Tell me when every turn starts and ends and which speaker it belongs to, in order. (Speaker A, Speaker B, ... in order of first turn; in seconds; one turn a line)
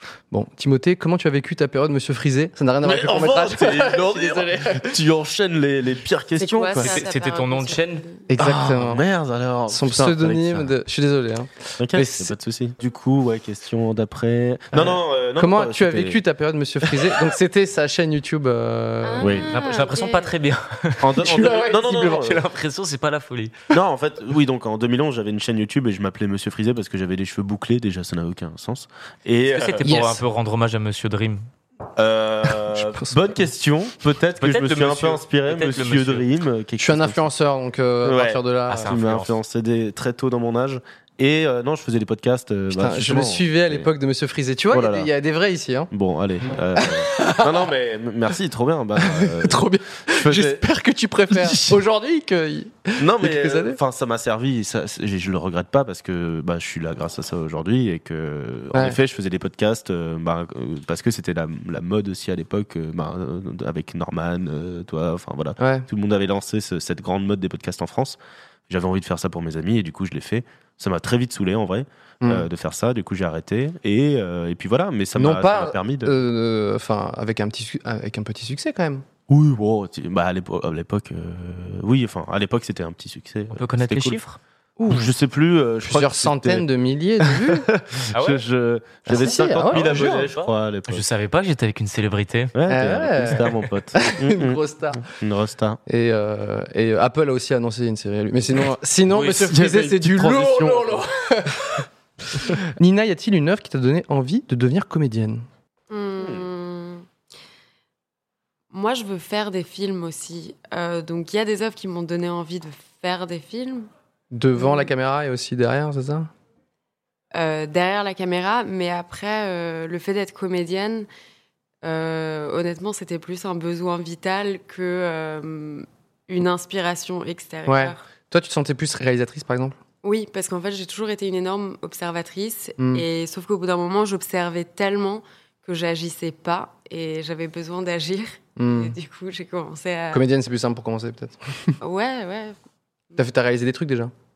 Speaker A: 0.3-5.0
Speaker B: 2.8-7.0
Speaker C: 6.4-8.3
Speaker D: 6.8-8.1
Speaker A: 8.3-9.0
Speaker B: 8.4-10.7
Speaker A: 9.7-12.3
Speaker B: 11.8-16.2
Speaker A: 14.7-19.4
Speaker C: 19.0-20.3
Speaker B: 19.2-19.5
Speaker D: 19.5-23.6
Speaker B: 21.0-22.4
Speaker A: 21.2-21.6
Speaker B: 23.7-29.9
Speaker D: 29.5-31.4
Speaker A: 29.8-30.2
Speaker B: 32.0-37.3
Speaker A: 32.7-33.2
Speaker D: 34.4-36.2
Speaker A: 36.8-39.0
Speaker B: 38.0-43.9
Speaker D: 38.7-39.4
Speaker A: 42.7-45.9
Speaker B: 44.7-45.1
Speaker B: 45.9-50.6
Speaker A: 46.8-47.5
Speaker A: 49.0-53.8
Speaker B: 51.3-51.8
Speaker B: 53.0-76.1
Speaker A: 65.6-65.9
Speaker A: 72.2-72.5
Speaker A: 75.2-79.0
Speaker B: 79.3-84.2
Speaker D: 83.5-84.4
Speaker A: 84.8-85.1
Speaker B: 84.9-86.7
Speaker A: 85.8-87.7
Speaker B: 87.2-91.0
Speaker D: 88.1-88.4
Speaker A: 89.1-90.3
Speaker D: 89.2-92.5
Speaker B: 92.5-95.8
Speaker A: 92.7-95.0
Speaker A: 95.9-105.5
Speaker D: 99.1-99.5
Speaker B: 99.2-101.0
Speaker C: 105.9-107.1
Speaker B: 106.2-106.5
Speaker C: 108.7-113.9
Speaker A: 114.3-116.3
Speaker C: 114.6-114.9
Speaker C: 117.3-121.1
Speaker C: 121.8-128.1
Speaker A: 127.7-129.8
Speaker C: 130.0-140.2
Speaker A: 132.8-133.1
Speaker A: 138.6-139.0
Speaker A: 140.1-141.8
Speaker C: 141.8-142.6
Speaker A: 143.2-144.1